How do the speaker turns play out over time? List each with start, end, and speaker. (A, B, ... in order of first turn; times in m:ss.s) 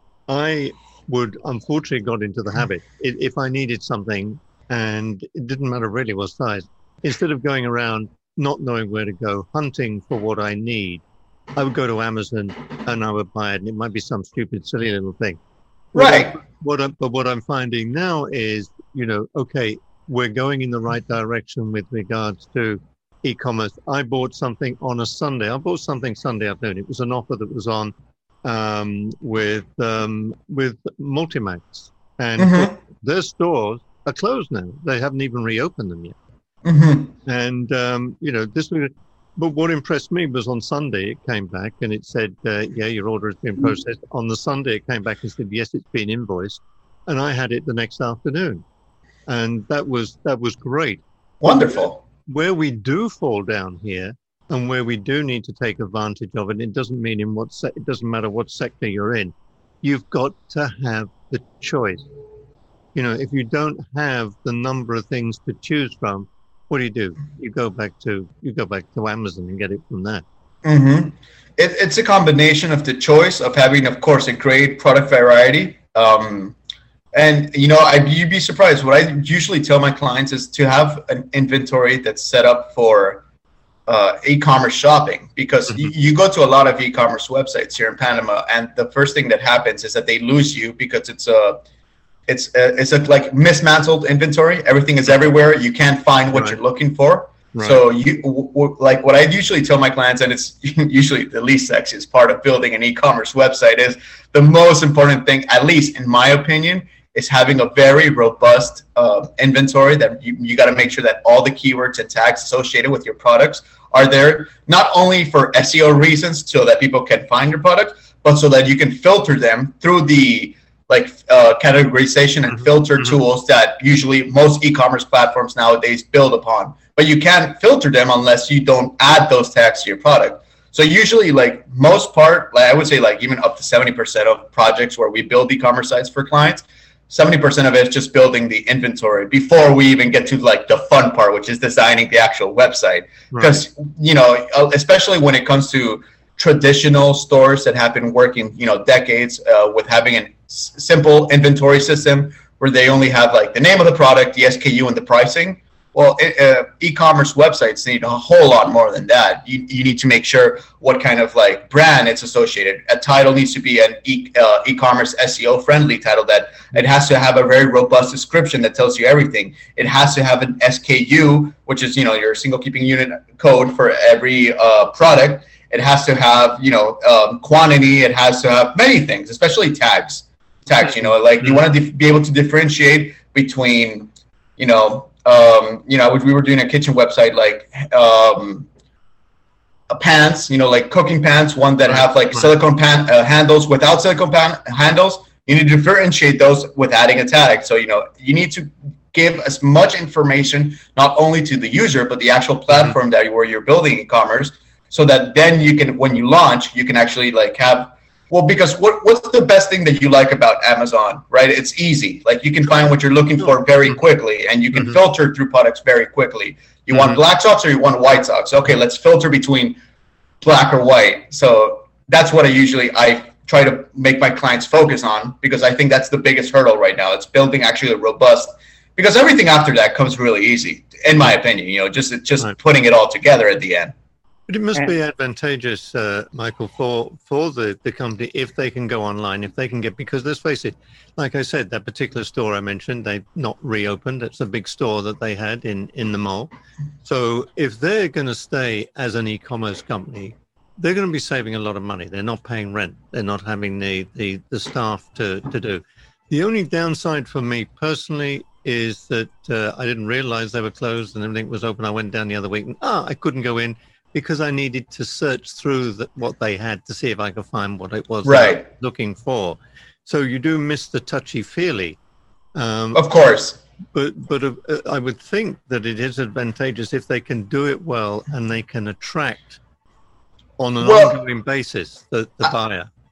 0:00.3-0:11.0 A
0:11.5-0:15.4 A
0:15.9-0:36.2 A
0:15.9-0:16.3 B
0:32.4-0:32.7 B
0:36.6-0:37.1 B
0:37.2-0:48.6 A
0:49.3-1:02.1 A
0:51.4-0:52.0 B
1:02.9-1:10.2 A
1:10.6-1:16.6 B
1:17.1-1:23.2 B
1:23.9-1:31.6 B
1:32.3-3:08.7 B
1:36.3-1:36.6 A
1:37.5-1:37.8 A
2:23.3-2:23.6 A
3:09.9-3:39.8 B
3:11.9-3:12.5 A
3:40.4-3:53.9 B
3:54.5-4:06.5 A
4:07.0-4:32.0 A
4:28.2-4:28.6 B
4:32.5-4:33.0 A
4:32.9-4:33.6 B
4:33.9-4:39.6 A
4:40.6-4:42.9 A
4:40.8-4:41.2 B